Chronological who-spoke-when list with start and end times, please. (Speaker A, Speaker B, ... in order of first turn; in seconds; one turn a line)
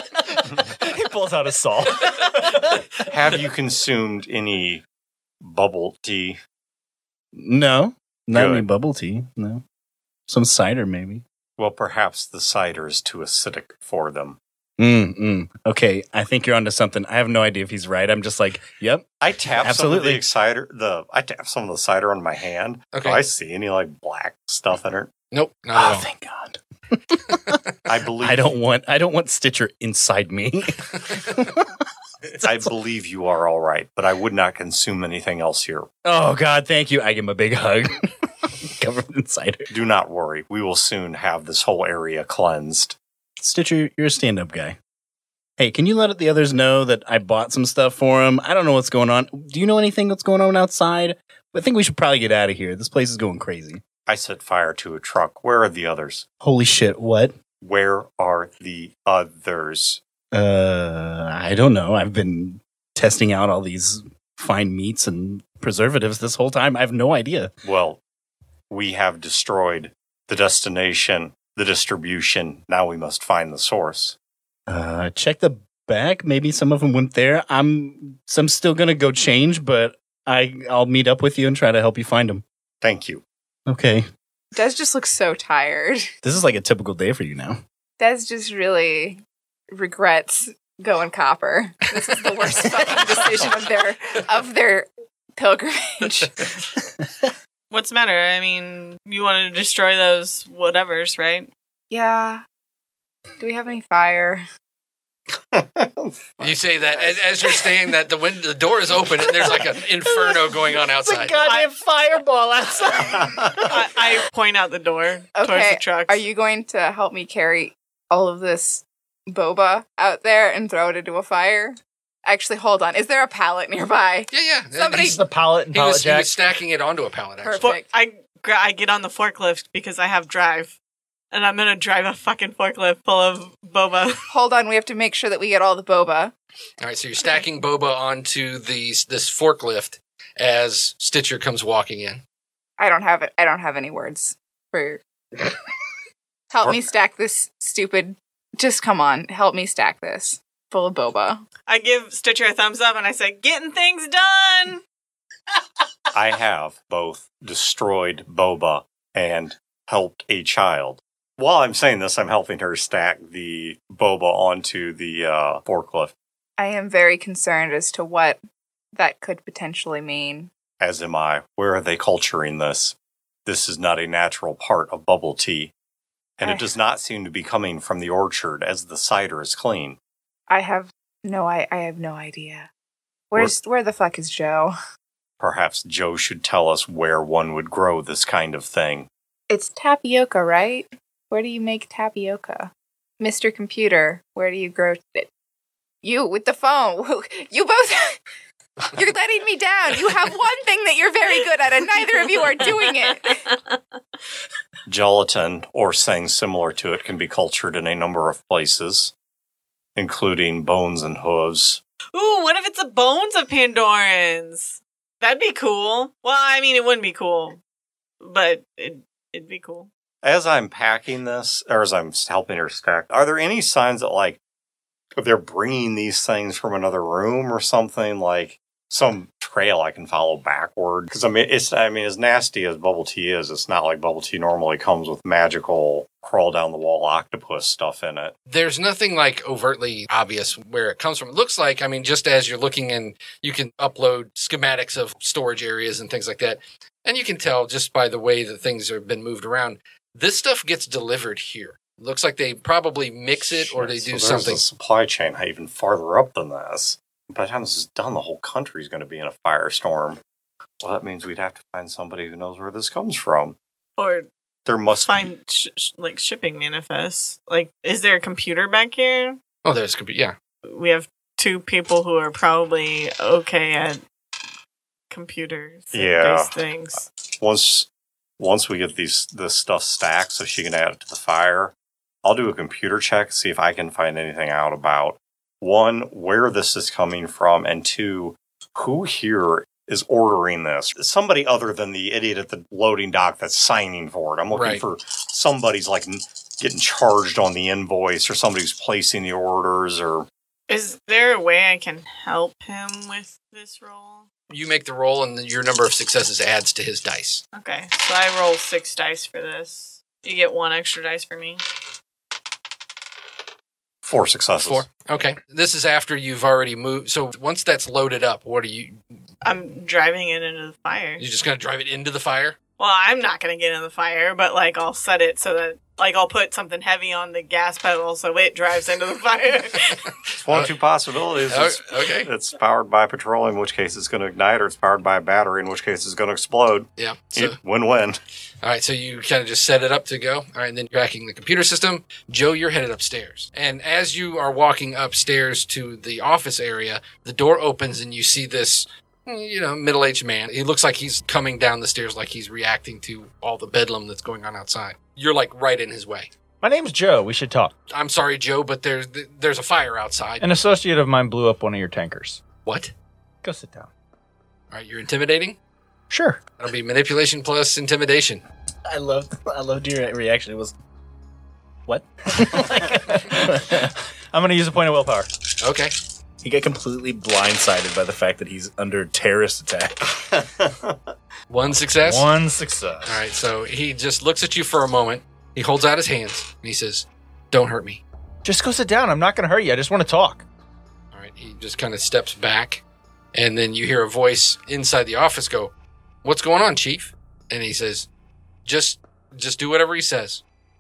Speaker A: 0.3-2.8
Speaker B: 3.1-4.8
Speaker B: 5.4-6.4
Speaker C: 7.3-9.6
Speaker B: 8.3-8.7
Speaker C: 10.3-11.2
Speaker B: 11.6-14.4
Speaker C: 14.8-19.1
Speaker B: 19.2-25.1
Speaker C: 19.6-20.2
Speaker D: 22.9-23.2
Speaker D: 25.3-26.0
Speaker C: 25.7-27.6
Speaker B: 27.9-28.5
Speaker C: 28.2-31.7
Speaker B: 32.4-35.9
Speaker C: 36.0-39.7
Speaker B: 39.7-43.0
Speaker C: 43.4-44.8
Speaker C: 45.6-53.8
Speaker B: 54.1-56.3
Speaker C: 56.4-57.3
Speaker B: 57.6-60.0
Speaker C: 60.3-67.5
Speaker B: 67.6-68.0
Speaker B: 68.7-74.2
Speaker C: 74.7-82.4
Speaker B: 82.8-83.2
Speaker C: 83.7-84.1
Speaker E: 84.5-86.1
Speaker C: 86.2-87.6
Speaker E: 88.0-89.2
Speaker E: 89.7-96.5
Speaker F: 97.7-101.5
Speaker E: 101.9-102.4
Speaker E: 103.4-104.5
Speaker B: 105.5-107.2
Speaker D: 106.4-111.4
Speaker C: 110.1-110.4
Speaker C: 111.0-114.0
Speaker F: 113.7-116.2
Speaker E: 115.3-125.2
Speaker D: 124.3-127.7
Speaker A: 125.0-126.3
Speaker E: 127.4-127.9
Speaker F: 127.6-130.8
Speaker F: 131.3-134.3
Speaker E: 134.3-136.3
Speaker D: 136.8-142.2
Speaker E: 142.8-145.0
Speaker E: 146.5-151.4
Speaker F: 151.7-154.8
Speaker B: 156.1-166.1
Speaker E: 166.6-168.4
Speaker E: 168.9-170.5
Speaker B: 170.8-172.9
Speaker B: 173.5-175.7
Speaker B: 176.4-180.0
Speaker E: 180.5-182.7
Speaker E: 183.3-184.7
Speaker B: 185.4-189.1
Speaker E: 189.5-195.3
Speaker E: 196.0-198.2
Speaker E: 198.9-203.5
Speaker B: 204.9-209.1
Speaker B: 210.0-211.8
Speaker F: 212.1-217.6
Speaker F: 218.2-219.9
Speaker B: 220.2-224.4
Speaker B: 225.2-238.3
Speaker D: 238.5-254.6
Speaker B: 253.6-260.2
Speaker B: 260.8-263.6
Speaker F: 264.0-264.3
Speaker B: 264.7-265.3
Speaker F: 265.0-269.4
Speaker D: 269.6-270.4
Speaker F: 270.6-274.0
Speaker F: 275.1-277.1
Speaker B: 275.9-276.5
Speaker B: 277.4-277.9
Speaker B: 278.4-281.7
Speaker B: 282.2-300.3
Speaker D: 294.5-294.8
Speaker F: 300.7-304.3
Speaker D: 304.5-307.4
Speaker F: 307.5-311.6
Speaker B: 314.0-314.9
Speaker D: 314.6-319.0
Speaker F: 319.4-321.2
Speaker D: 321.2-322.6
Speaker F: 322.8-330.1
Speaker B: 330.4-338.2
Speaker D: 331.5-332.3
Speaker D: 337.0-337.6
Speaker D: 338.6-356.3
Speaker A: 356.6-357.7
Speaker D: 357.9-360.4
Speaker A: 360.4-362.4
Speaker D: 362.7-362.9
Speaker A: 363.4-363.9
Speaker D: 364.7-365.6
Speaker A: 366.1-366.4
Speaker D: 366.6-368.4
Speaker C: 368.9-370.7
Speaker C: 371.9-373.9
Speaker A: 372.9-375.3
Speaker D: 375.6-375.9
Speaker C: 376.4-380.4
Speaker B: 380.3-381.0
Speaker D: 381.5-382.3
Speaker A: 382.0-383.2
Speaker D: 383.1-388.0
Speaker A: 388.4-390.4
Speaker D: 391.1-392.8
Speaker D: 393.3-395.7
Speaker D: 396.2-398.1
Speaker D: 398.7-400.4